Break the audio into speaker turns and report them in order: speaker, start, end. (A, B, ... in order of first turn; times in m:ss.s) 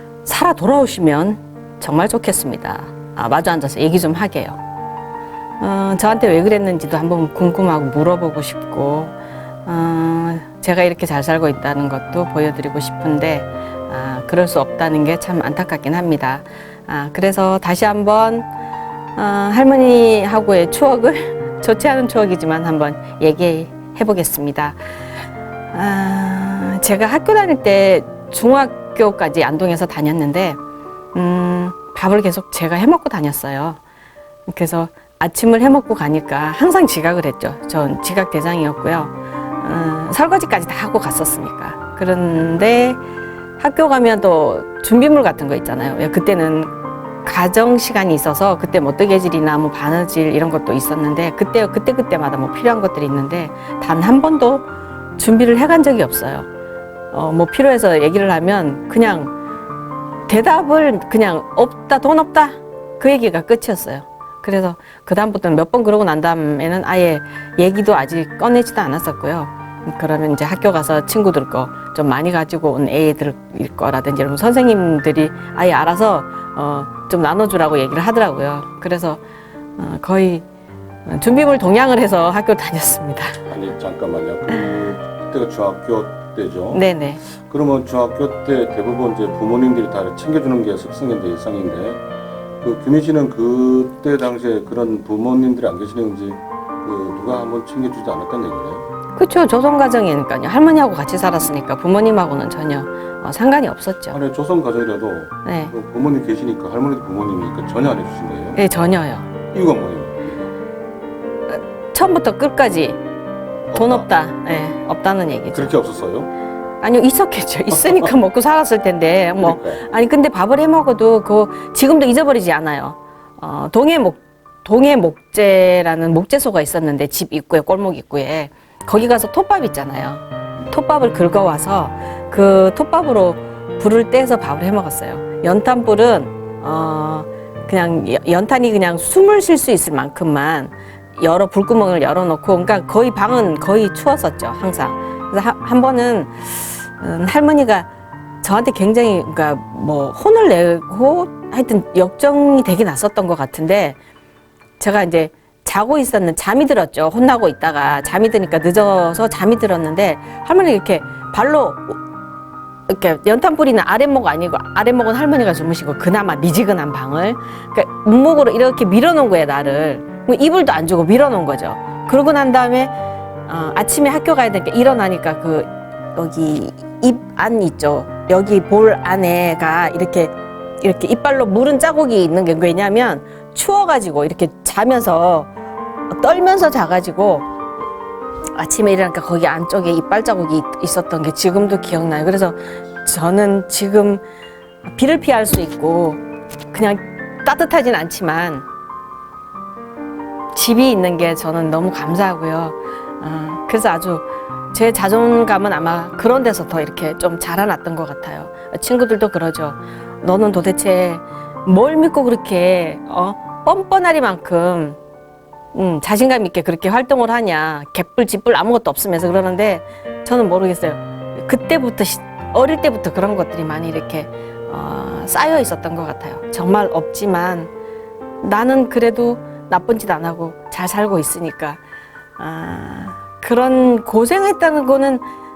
0:00.2-0:04.6 A
0:05.6-0:18.5 A
0:19.2-0:24.8 A
0:25.7-0:30.6 A
0:31.1-0:33.8 A
0:34.5-0:43.0 A
0:43.6-0:54.6 A
0:55.2-0:56.5 A
0:57.1-0:59.3 A
1:00.3-1:19.2 A
1:19.8-1:20.4 A
1:21.0-1:23.4 A
1:23.5-1:32.0 B
1:26.7-1:27.2 A
1:32.6-1:38.8 B
1:39.2-1:44.2 A
1:44.1-1:48.6 B
1:45.4-1:45.7 A
1:48.5-1:49.3 A
1:49.5-1:50.5 B
1:51.5-1:53.0 A
1:53.7-1:54.0 B
1:53.7-1:55.7 A
1:55.5-1:56.3 B
1:56.8-2:27.9 A
1:59.4-1:59.8 B
2:28.4-2:34.0 A
2:34.8-2:42.0 A
2:42.9-2:52.9 A
2:53.4-3:05.5 A
3:06.1-3:07.5 A
3:08.5-3:14.2 A
3:14.9-3:18.6 A
3:20.5-3:35.0 A
3:35.7-3:47.7 A
3:48.4-3:51.8 A
3:52.4-3:55.2 A